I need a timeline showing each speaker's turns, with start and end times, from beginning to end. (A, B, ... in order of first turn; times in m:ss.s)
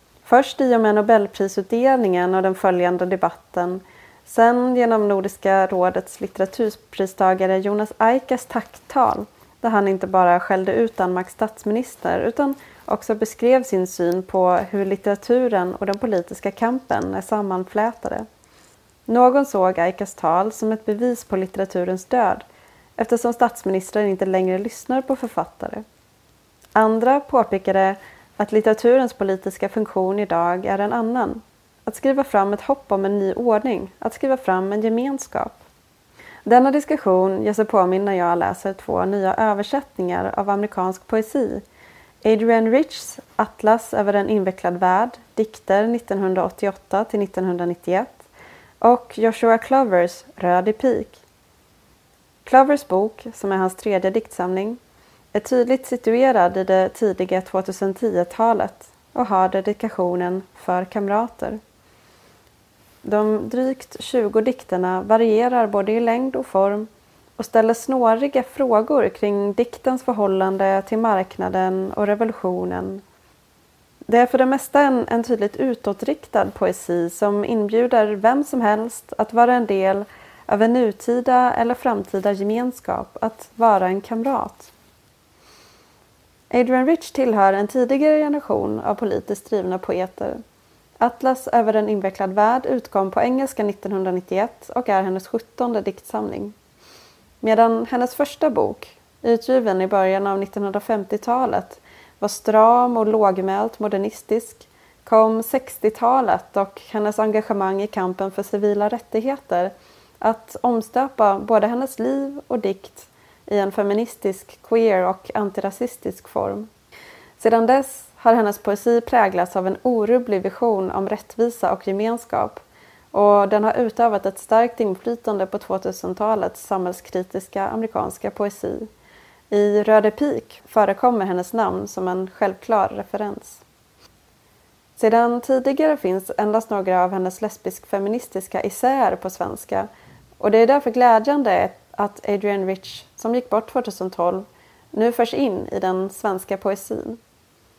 0:00.2-0:18.2 A
0:19.1-0:22.4 A
0:23.0-0:25.8 A
0:26.7-0:35.6 A
0:36.4-0:41.6 A
0:42.2-0:48.3 A
0:48.8-0:51.2 A
0:52.4-0:54.8 A
0:55.3-1:01.6 A
1:03.0-1:13.0 A
1:14.1-1:24.7 A
1:26.5-1:30.4 A
1:31.0-1:36.5 A
1:37.4-1:56.7 A
1:57.4-2:08.9 A
2:09.5-2:13.6 A
2:15.0-2:19.9 A
2:20.4-2:27.2 A